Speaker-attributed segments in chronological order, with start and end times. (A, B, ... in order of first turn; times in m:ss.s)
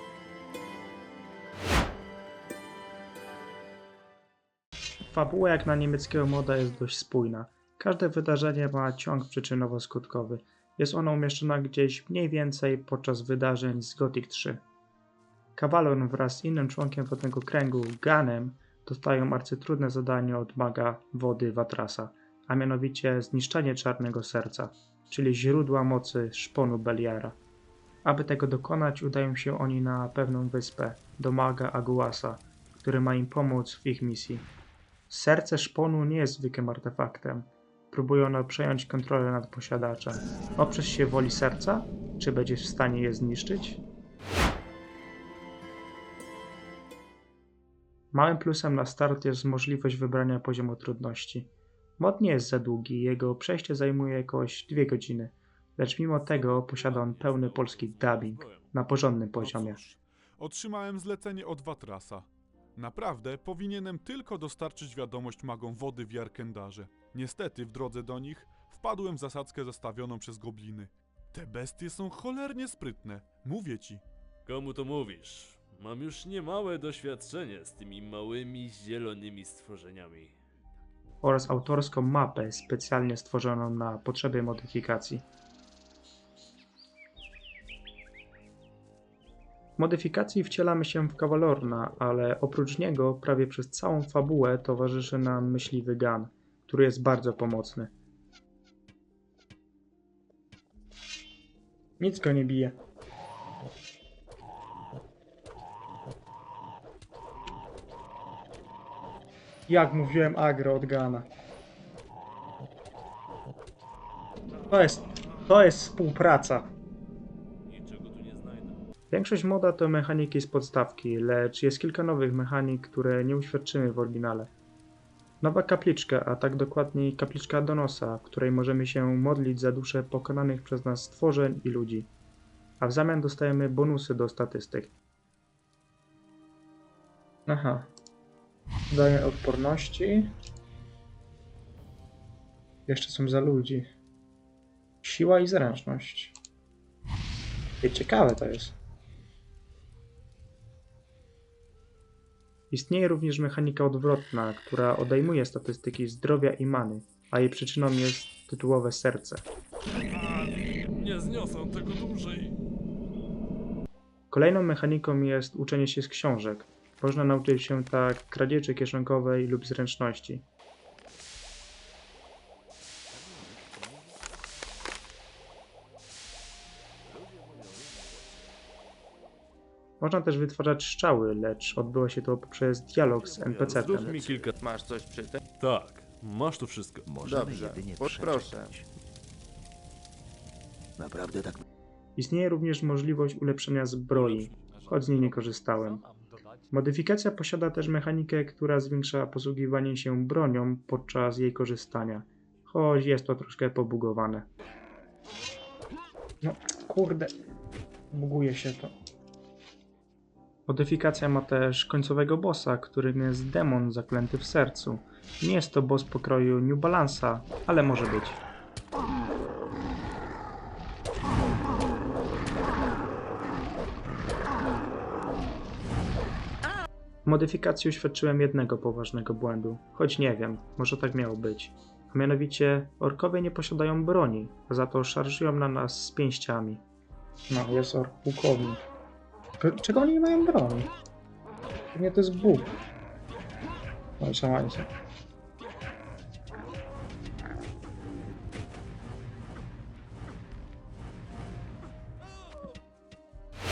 0:05.1-0:14.6 A
0:15.6-0:27.4 A
0:28.0-0:34.5 A
0:35.1-0:43.8 A
0:48.1-0:59.8 A
0:56.2-0:58.7 B
0:59.4-1:14.0 C
1:14.5-1:20.4 B
1:21.2-1:25.2 A
1:29.8-1:37.9 A
1:42.0-1:42.8 A
1:49.7-1:51.3 A
1:54.7-1:56.7 A
1:57.7-1:58.8 B
1:59.1-2:04.5 A
2:05.4-2:12.1 A
2:12.8-2:14.9 A
2:17.5-2:17.9 A
2:18.9-2:20.3 A
2:22.9-2:23.9 A
2:25.0-2:26.4 A
2:27.8-2:28.8 A
2:32.7-2:39.4 A
2:40.1-2:42.6 B
2:44.3-2:50.5 A
2:53.1-2:54.2 B
2:57.1-2:58.5 B
3:00.0-3:04.2 A
3:03.2-3:04.5 D
3:03.3-3:04.5 B
3:03.7-3:05.4 E
3:05.6-3:07.1 B
3:07.0-3:08.9 D
3:07.2-3:08.7 E
3:11.0-3:11.6 D
3:12.2-3:16.0 A
3:14.1-3:15.3 B
3:16.7-3:24.5 A
3:26.4-3:27.3 A
3:28.1-3:28.9 A
3:30.7-3:38.4 A
3:47.2-3:56.8 A
3:57.5-3:58.8 A
3:59.6-4:00.9 A
4:01.9-4:02.7 A
4:04.2-4:04.9 A